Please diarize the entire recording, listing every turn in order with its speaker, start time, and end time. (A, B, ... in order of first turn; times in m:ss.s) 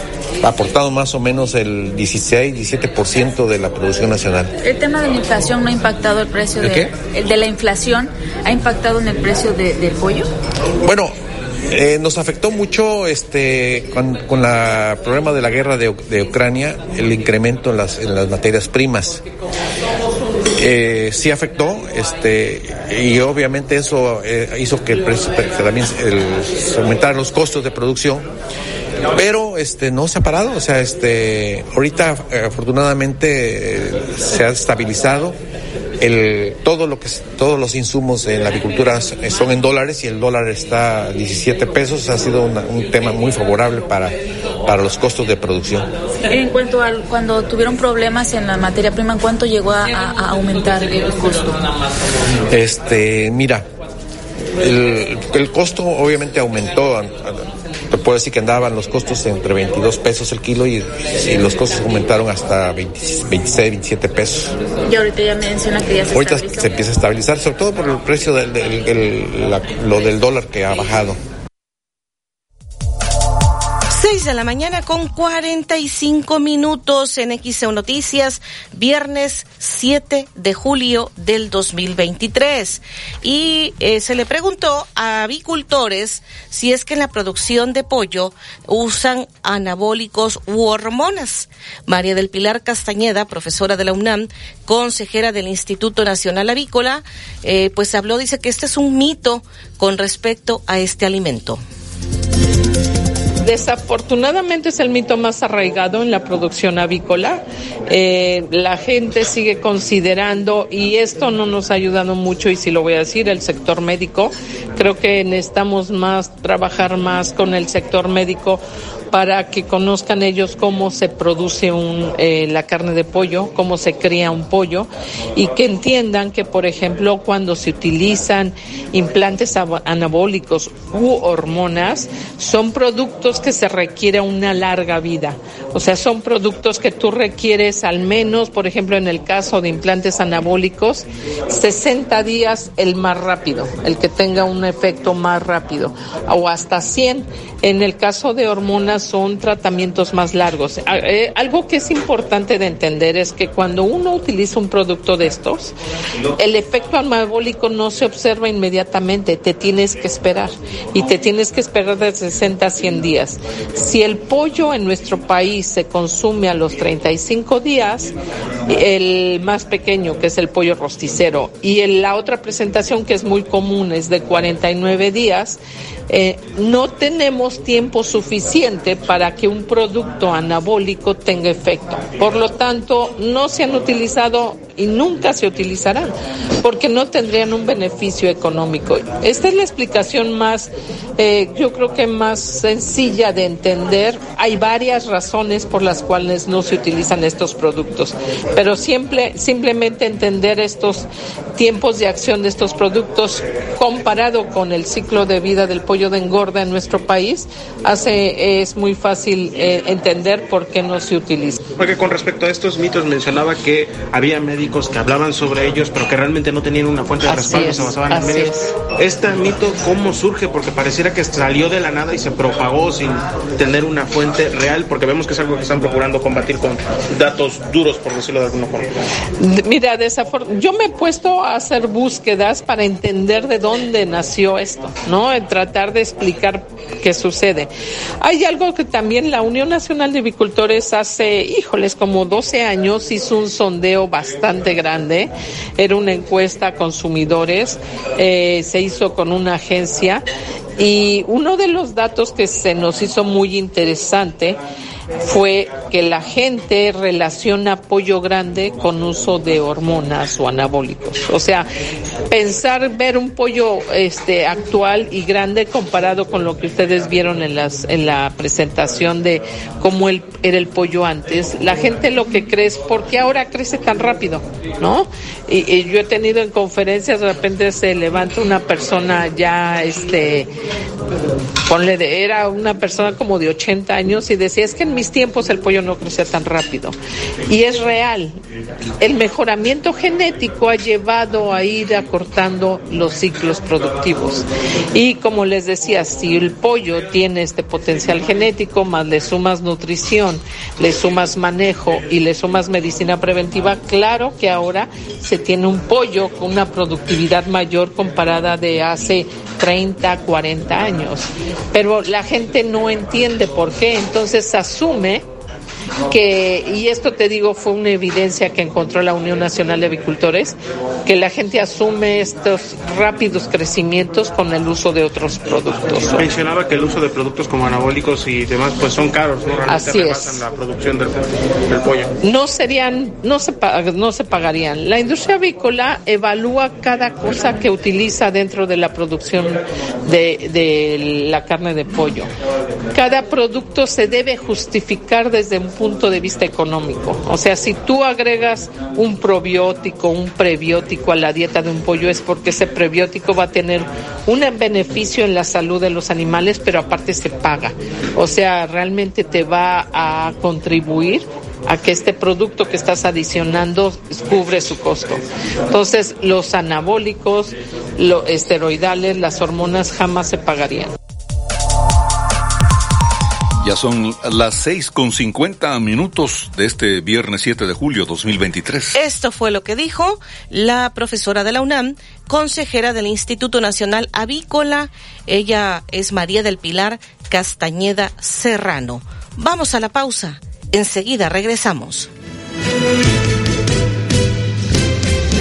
0:00.4-0:04.6 A
0:04.6-0:10.3 B
0:06.6-0:06.9 A
0:10.8-0:11.2 A
0:11.7-0:19.2 A
0:20.5-0:28.3 A
0:29.1-0:35.4 A
0:36.0-0:45.9 A
0:46.3-0:51.7 B
0:52.5-0:53.7 A
0:54.6-1:04.6 A
1:04.8-1:06.7 B
1:06.1-1:11.2 A
1:14.0-1:41.6 C
1:43.4-2:35.7 D
2:36.4-2:48.1 D
2:48.7-3:31.7 D
3:31.8-3:48.9 E
3:37.2-3:38.7 D
3:49.4-4:10.2 D
4:10.8-4:14.6 D
4:15.2-4:21.7 D
4:22.3-4:40.5 D
4:41.7-4:47.0 D
4:47.5-4:48.4 D
4:49.0-5:15.2 D
5:16.1-5:26.3 D
5:26.1-5:32.1 E
5:29.7-5:30.4 D
5:32.2-5:42.3 D
5:42.9-6:10.9 D
6:13.6-6:19.0 F
6:19.0-6:32.1 C